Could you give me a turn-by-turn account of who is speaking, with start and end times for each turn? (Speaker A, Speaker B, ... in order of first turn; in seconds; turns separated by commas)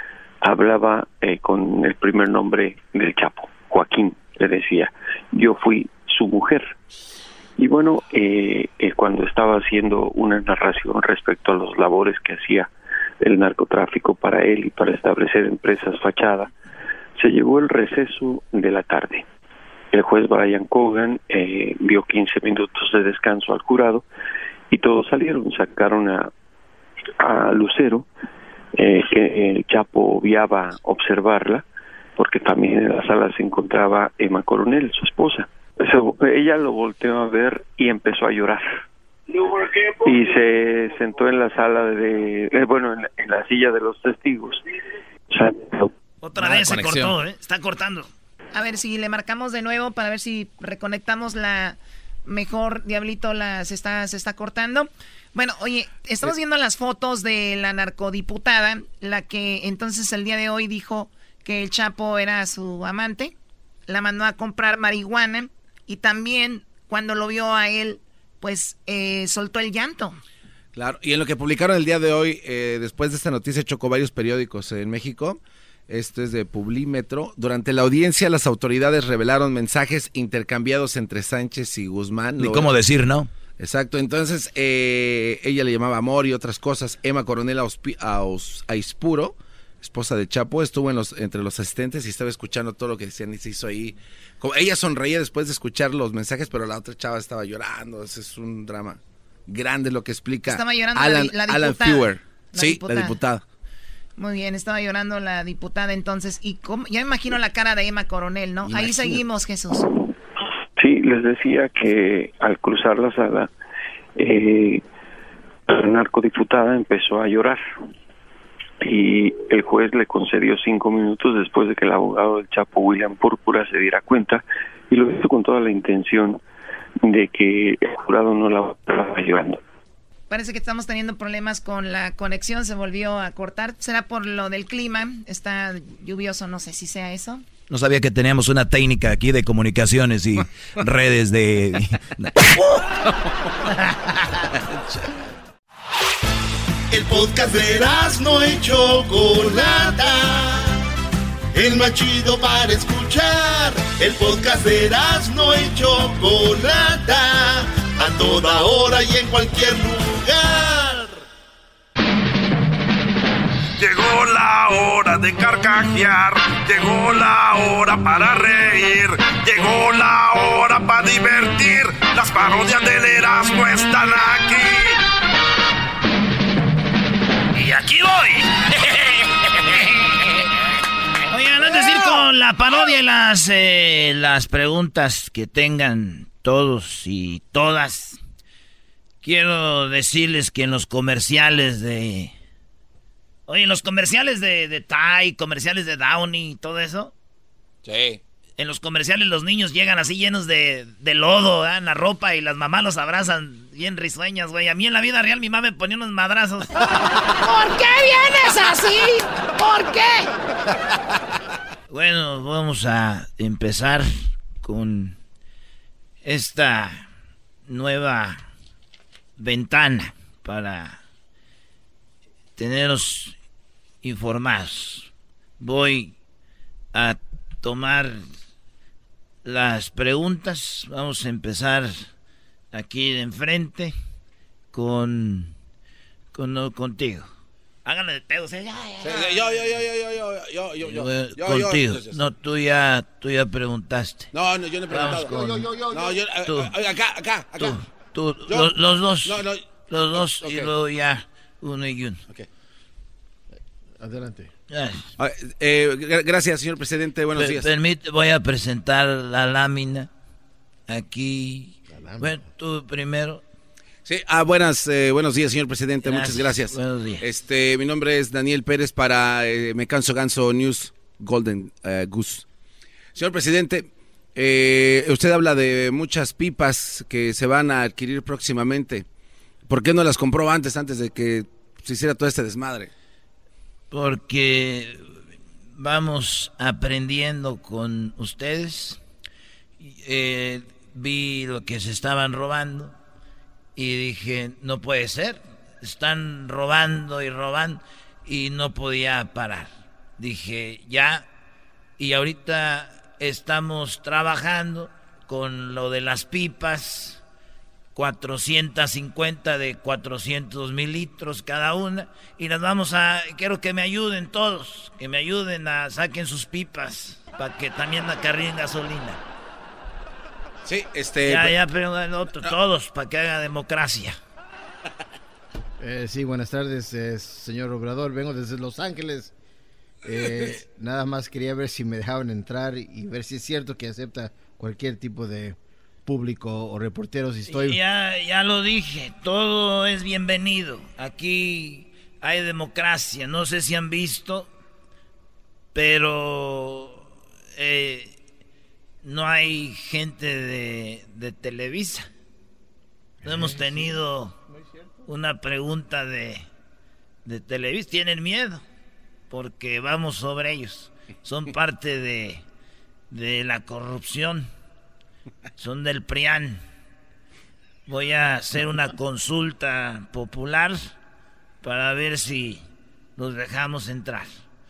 Speaker A: 0.4-6.7, Speaker A: 7.6-12.7, Speaker A: 13.2-16.5, Speaker A: 17.2-19.2, Speaker A: 19.9-24.0, Speaker A: 24.7-26.3, Speaker A: 27.2-28.1, Speaker A: 28.8-31.6, Speaker A: 32.2-38.7, Speaker A: 39.9-44.6, Speaker A: 45.3-45.9, Speaker B: 46.2-48.1, Speaker C: 46.4-47.2, Speaker D: 48.5-63.3, Speaker D: 63.9-70.2, Speaker C: 70.8-82.7, Speaker E: 82.4-83.3, Speaker C: 83.6-103.4, Speaker D: 100.5-103.2, Speaker D: 104.2-109.9, Speaker C: 108.7-109.2, Speaker A: 110.8-113.5, Speaker A: 114.2-114.8, Speaker A: 115.7-117.6, Speaker A: 118.8-126.4, Speaker A: 127.0-129.6, Speaker D: 130.3-137.4, Speaker E: 137.7-142.5, Speaker F: 146.9-150.8, Speaker F: 151.5-161.2, Speaker G: 163.8-175.0, Speaker B: 177.5-178.6, Speaker B: 181.3-188.2, Speaker B: 189.2-192.3, Speaker B: 193.5-197.1, Speaker C: 197.8-198.2, Speaker B: 198.6-206.7, Speaker B: 207.4-210.3, Speaker B: 211.9-215.2, Speaker B: 216.2-217.1, Speaker B: 217.7-218.4, Speaker B: 219.4-221.0, Speaker B: 222.6-223.4, Speaker B: 224.0-226.1, Speaker B: 226.9-228.2, Speaker B: 229.4-232.1, Speaker B: 232.7-233.9, Speaker B: 234.7-235.5, Speaker B: 236.3-237.3, Speaker B: 237.8-239.6, Speaker C: 239.0-242.2, Speaker B: 240.8-244.3, Speaker C: 244.3-247.8, Speaker B: 244.9-245.6, Speaker H: 245.1-246.1, Speaker B: 246.4-246.7, Speaker B: 247.6-252.2, Speaker C: 248.5-248.7, Speaker C: 249.2-250.7, Speaker H: 254.0-254.5, Speaker B: 254.7-255.1, Speaker C: 255.2-257.7, Speaker B: 257.4-260.1, Speaker B: 260.9-263.4, Speaker H: 261.9-262.4, Speaker C: 264.1-272.4, Speaker B: 266.1-267.2, Speaker C: 273.1-279.1, Speaker C: 279.7-282.9, Speaker B: 283.9-285.1, Speaker B: 285.8-289.0, Speaker B: 289.8-292.9, Speaker B: 293.8-301.3, Speaker B: 302.0-307.2, Speaker B: 307.9-319.2, Speaker C: 320.6-321.6, Speaker B: 321.2-324.2, Speaker H: 325.8-329.3, Speaker H: 330.1-337.8, Speaker B: 337.5-344.5, Speaker B: 345.7-348.1, Speaker B: 349.0-352.1, Speaker B: 353.2-354.4, Speaker B: 355.1-356.5, Speaker B: 357.2-358.6, Speaker B: 359.3-362.4, Speaker B: 363.1-364.5, Speaker B: 365.6-366.6, Speaker B: 367.9-370.9, Speaker B: 371.6-374.4